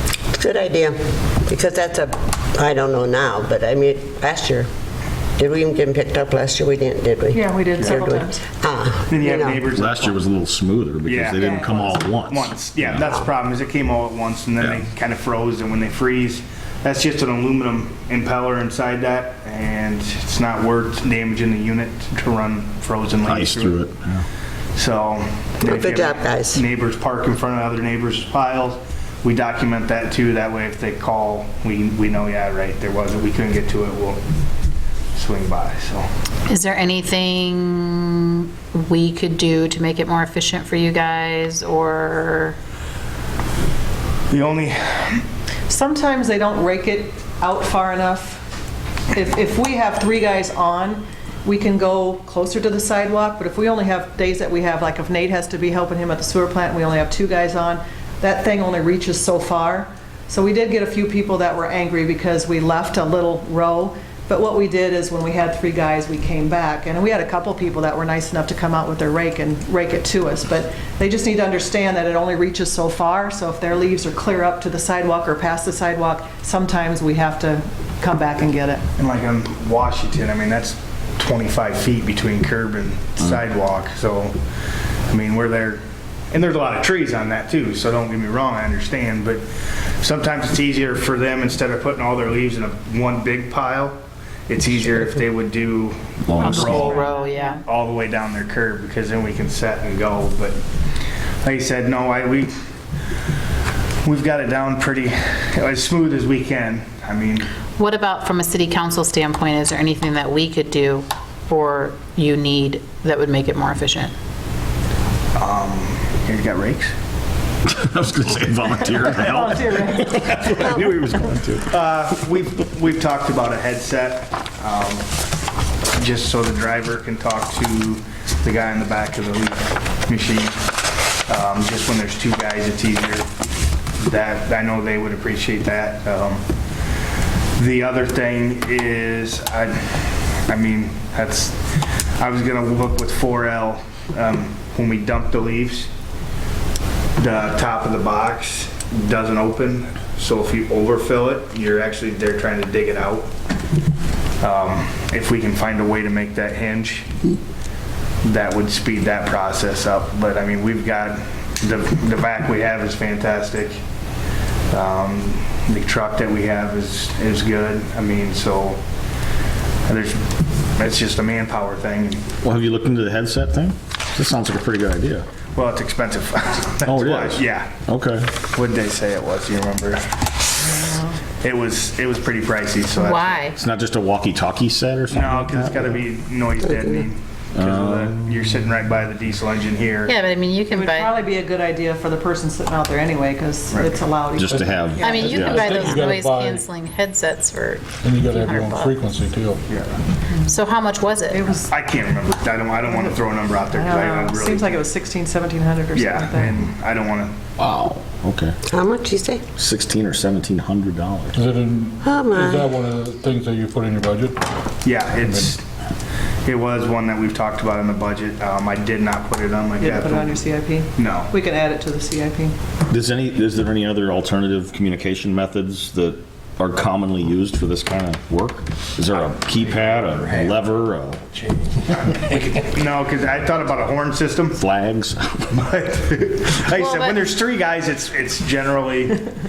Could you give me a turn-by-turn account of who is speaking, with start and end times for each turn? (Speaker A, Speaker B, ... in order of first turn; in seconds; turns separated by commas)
Speaker A: 0.3-4.7, Speaker A: 5.4-9.6, Speaker B: 7.3-8.4, Speaker C: 9.1-10.2, Speaker D: 9.7-13.1, Speaker C: 11.0-23.8, Speaker B: 11.3-11.9, Speaker D: 23.2-24.2, Speaker C: 24.7-34.2, Speaker A: 25.6-26.6, Speaker C: 35.1-36.0, Speaker E: 36.5-42.6, Speaker C: 44.3-45.2, Speaker B: 45.7-48.4, Speaker B: 49.1-78.8, Speaker C: 79.0-84.3, Speaker C: 85.1-100.6, Speaker D: 96.2-96.9, Speaker B: 96.3-97.6, Speaker E: 96.4-97.6, Speaker C: 101.4-102.5, Speaker C: 104.0-107.5, Speaker E: 107.8-114.1, Speaker C: 115.3-116.9, Speaker D: 117.7-121.6, Speaker B: 118.8-120.8, Speaker C: 121.5-125.1, Speaker C: 125.9-130.6, Speaker C: 131.3-133.3, Speaker C: 134.0-136.4, Speaker C: 137.6-145.9, Speaker C: 147.2-153.3, Speaker C: 154.4-157.2, Speaker C: 158.2-163.8, Speaker C: 164.7-168.8, Speaker C: 169.8-172.3, Speaker D: 172.4-175.2, Speaker C: 175.5-177.8, Speaker D: 176.8-178.3, Speaker C: 178.4-180.0, Speaker C: 181.4-183.5, Speaker E: 183.0-183.5, Speaker D: 183.5-185.9, Speaker C: 185.1-190.1, Speaker A: 186.7-187.0, Speaker D: 187.6-188.4, Speaker E: 190.1-191.1, Speaker B: 190.7-195.7, Speaker C: 193.7-193.9, Speaker D: 194.4-195.8, Speaker F: 194.4-196.7, Speaker E: 195.0-198.9, Speaker F: 198.0-199.6, Speaker C: 199.7-200.0, Speaker E: 200.4-201.5, Speaker B: 201.3-201.7, Speaker C: 201.7-204.8, Speaker B: 203.7-206.6, Speaker C: 205.9-207.4, Speaker D: 207.6-208.6, Speaker A: 208.7-209.4, Speaker D: 209.6-211.3, Speaker F: 211.3-214.4, Speaker A: 212.0-212.7, Speaker C: 214.8-215.6, Speaker C: 216.4-221.3, Speaker B: 219.8-222.5, Speaker D: 222.9-231.2, Speaker C: 229.8-230.5, Speaker C: 231.3-234.6, Speaker D: 234.5-235.6, Speaker C: 235.5-239.3, Speaker E: 236.8-237.2